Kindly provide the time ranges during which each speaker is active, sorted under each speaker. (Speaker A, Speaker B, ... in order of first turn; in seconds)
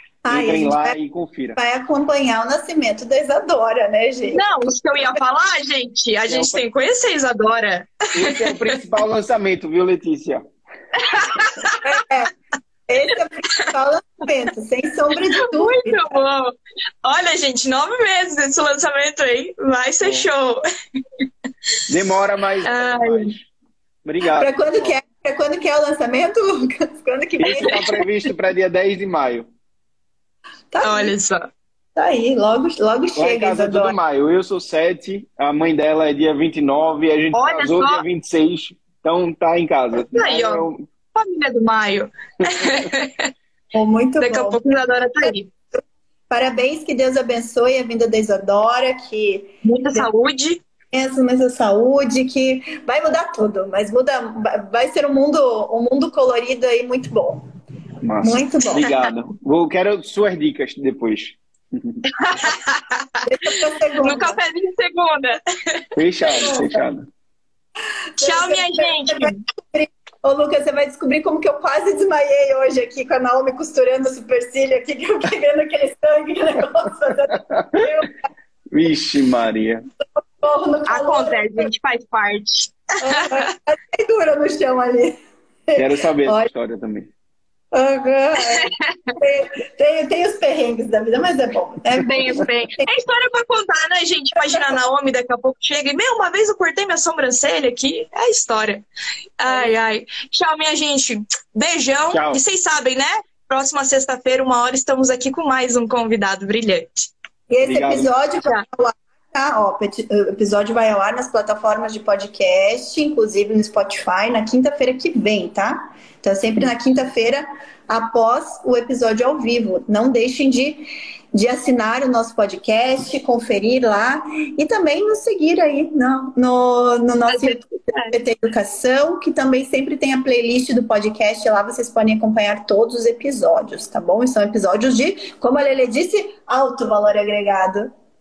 Speaker A: 0.2-1.0, 1.6-4.5, 11.8-12.3, 12.9-16.2, 24.4-28.0, 30.7-31.1, 32.0-34.0, 43.7-50.1, 50.9-57.5, 58.2-58.8, 63.3-64.4, 66.4-66.8, 68.2-78.1, 80.4-81.7, 83.0-85.2, 85.7-86.5, 87.7-92.9, 94.5-94.8, 107.5-137.9
Speaker B: 0.3-1.6, 6.3-6.6, 8.1-10.4, 20.0-20.3, 21.9-23.5, 24.0-24.9, 27.4-29.5, 33.2-40.8, 42.5-42.9, 58.0-62.0, 66.0-67.1, 77.4-77.9, 78.7-79.8, 85.8-87.1, 102.1-102.4, 107.6-108.1
Speaker C: 4.3-8.8, 11.0-11.8, 15.3-20.6, 22.6-23.3, 27.6-28.0, 30.8-31.5, 37.3-38.0, 40.0-43.3, 44.2-45.5, 49.6-50.6, 58.8-59.1, 62.2-65.8, 68.2-69.4, 80.9-83.5, 88.5-89.2, 92.0-98.8, 99.4-107.1, 127.3-128.2